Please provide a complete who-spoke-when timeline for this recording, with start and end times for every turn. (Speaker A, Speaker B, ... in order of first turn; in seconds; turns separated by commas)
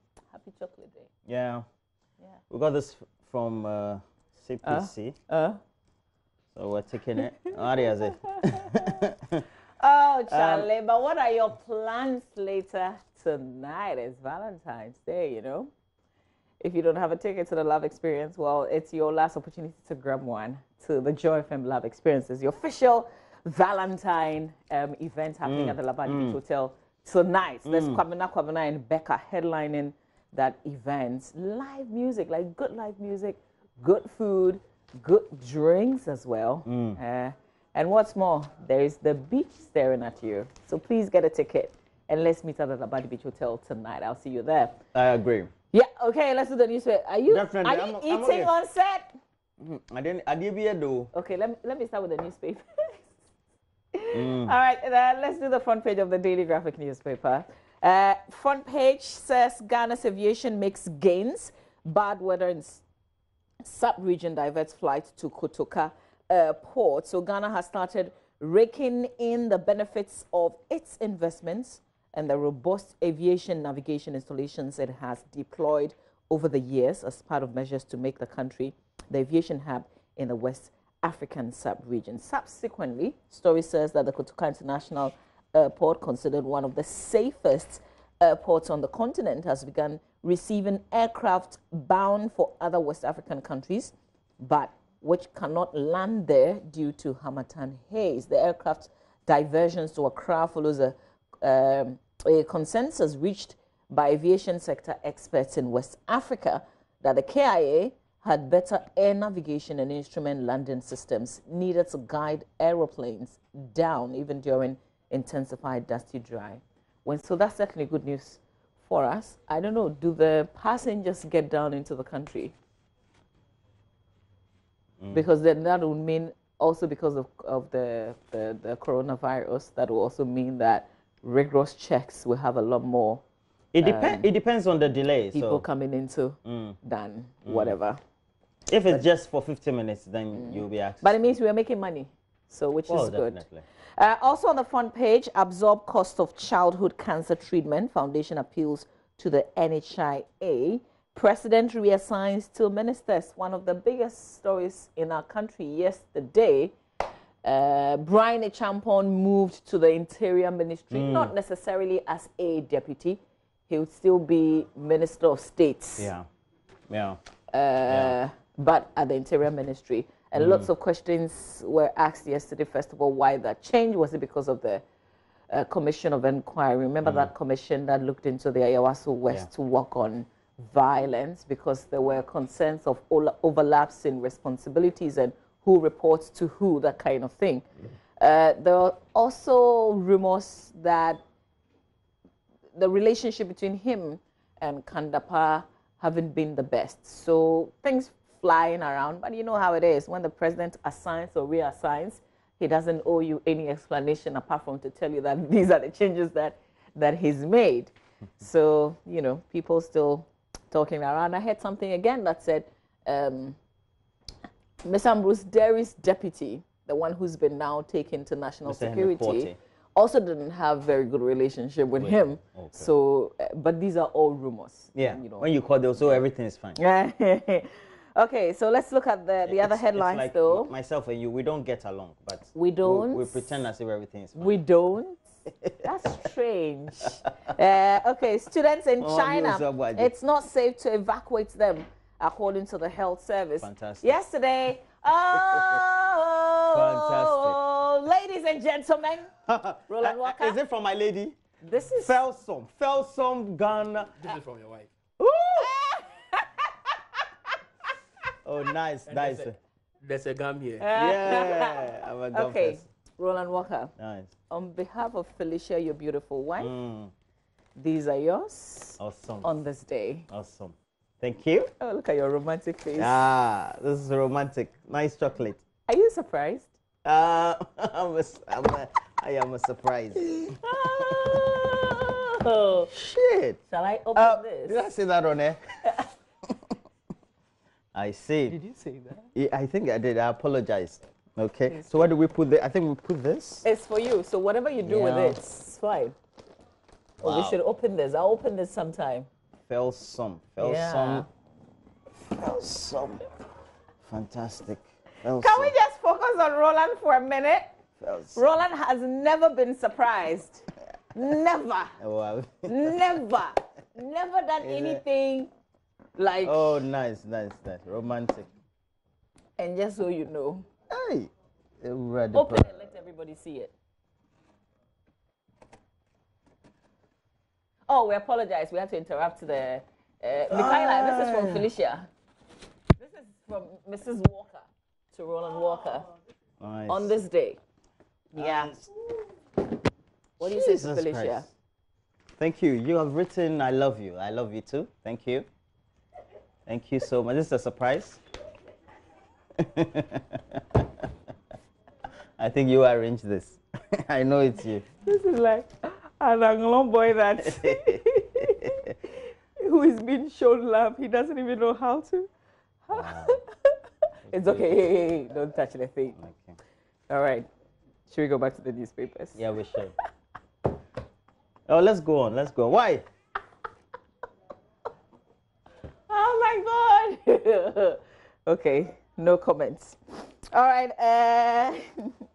Speaker A: 0.3-1.1, Speaker B: 1.3-1.6, Speaker B: 2.5-5.2, Speaker A: 4.6-5.6, Speaker B: 6.5-9.4, Speaker A: 7.2-7.5, Speaker A: 9.8-15.7, Speaker B: 10.3-10.7, Speaker A: 16.6-44.8, Speaker B: 25.5-26.4, Speaker B: 27.7-28.0, Speaker B: 36.7-37.0, Speaker B: 44.9-45.5, Speaker A: 45.7-49.1, Speaker B: 47.3-48.5, Speaker B: 49.6-51.1, Speaker A: 51.1-53.1, Speaker A: 53.9-62.8, Speaker B: 54.1-54.5, Speaker A: 63.6-122.5, Speaker A: 125.1-133.2, Speaker B: 133.7-135.6, Speaker A: 133.8-134.3, Speaker A: 135.3-138.0, Speaker B: 136.4-136.8, Speaker B: 137.5-137.7, Speaker B: 138.7-141.2, Speaker A: 140.3-143.4, Speaker B: 142.9-143.6, Speaker A: 144.0-156.8, Speaker A: 157.4-166.1, Speaker B: 160.9-161.3, Speaker B: 166.0-166.3, Speaker B: 166.9-167.2, Speaker A: 167.5-174.8, Speaker B: 167.9-168.2, Speaker B: 170.3-170.7, Speaker A: 175.5-187.7, Speaker A: 188.2-191.2, Speaker A: 192.8-213.6, Speaker A: 214.8-225.5, Speaker B: 218.7-219.6, Speaker B: 222.0-222.9, Speaker B: 224.9-226.8, Speaker A: 226.8-230.7, Speaker B: 229.4-234.5, Speaker A: 232.5-233.6, Speaker A: 234.4-249.3, Speaker B: 239.0-240.1, Speaker B: 243.6-244.2, Speaker B: 245.4-245.8, Speaker B: 246.7-247.6, Speaker B: 249.5-251.4, Speaker A: 249.9-250.6, Speaker A: 251.6-252.2, Speaker B: 252.0-254.2, Speaker C: 254.2-254.9, Speaker B: 255.2-255.7, Speaker A: 255.6-256.9, Speaker B: 258.4-259.6, Speaker C: 259.1-259.5, Speaker C: 260.0-260.9, Speaker A: 260.8-263.9, Speaker B: 260.9-262.8, Speaker B: 264.0-264.3, Speaker A: 264.5-266.7, Speaker B: 266.6-267.1, Speaker A: 267.8-270.3, Speaker B: 269.0-269.5, Speaker B: 270.3-271.7, Speaker A: 271.8-273.2, Speaker B: 273.0-275.6, Speaker A: 275.9-276.7, Speaker B: 277.0-281.4, Speaker A: 280.6-282.9, Speaker B: 282.9-283.6, Speaker A: 283.7-284.9, Speaker B: 284.1-285.6, Speaker B: 287.9-288.6, Speaker A: 288.5-289.3, Speaker B: 289.4-293.6, Speaker A: 291.7-292.0, Speaker A: 293.6-296.2, Speaker B: 294.9-295.4, Speaker B: 297.2-297.6, Speaker A: 297.2-299.3, Speaker B: 299.7-301.2, Speaker A: 300.6-301.3, Speaker B: 302.2-303.3, Speaker B: 304.0-305.7, Speaker A: 305.4-307.7, Speaker B: 308.0-308.4, Speaker A: 308.4-311.9, Speaker B: 312.0-313.0, Speaker A: 312.7-315.5, Speaker B: 314.6-315.0, Speaker A: 316.2-316.8, Speaker B: 316.4-318.5, Speaker A: 319.6-320.7, Speaker B: 320.9-321.3, Speaker B: 321.8-322.8, Speaker A: 322.3-323.7, Speaker A: 327.9-332.1, Speaker B: 330.5-331.6, Speaker A: 333.0-336.1, Speaker B: 336.6-337.1, Speaker A: 336.9-337.6, Speaker A: 338.3-338.8, Speaker B: 338.4-338.9, Speaker A: 340.4-341.5, Speaker B: 340.4-341.5, Speaker B: 342.4-345.5, Speaker B: 346.7-348.2, Speaker B: 349.6-350.9, Speaker B: 352.4-354.8, Speaker A: 355.0-358.8, Speaker B: 357.5-358.5, Speaker A: 359.6-362.3, Speaker A: 362.9-363.7, Speaker B: 362.9-363.4, Speaker A: 364.3-366.2, Speaker B: 364.3-364.7, Speaker B: 366.2-366.6, Speaker A: 367.1-367.5, Speaker A: 368.1-369.9, Speaker B: 369.4-369.9, Speaker B: 371.7-373.1, Speaker A: 376.1-382.1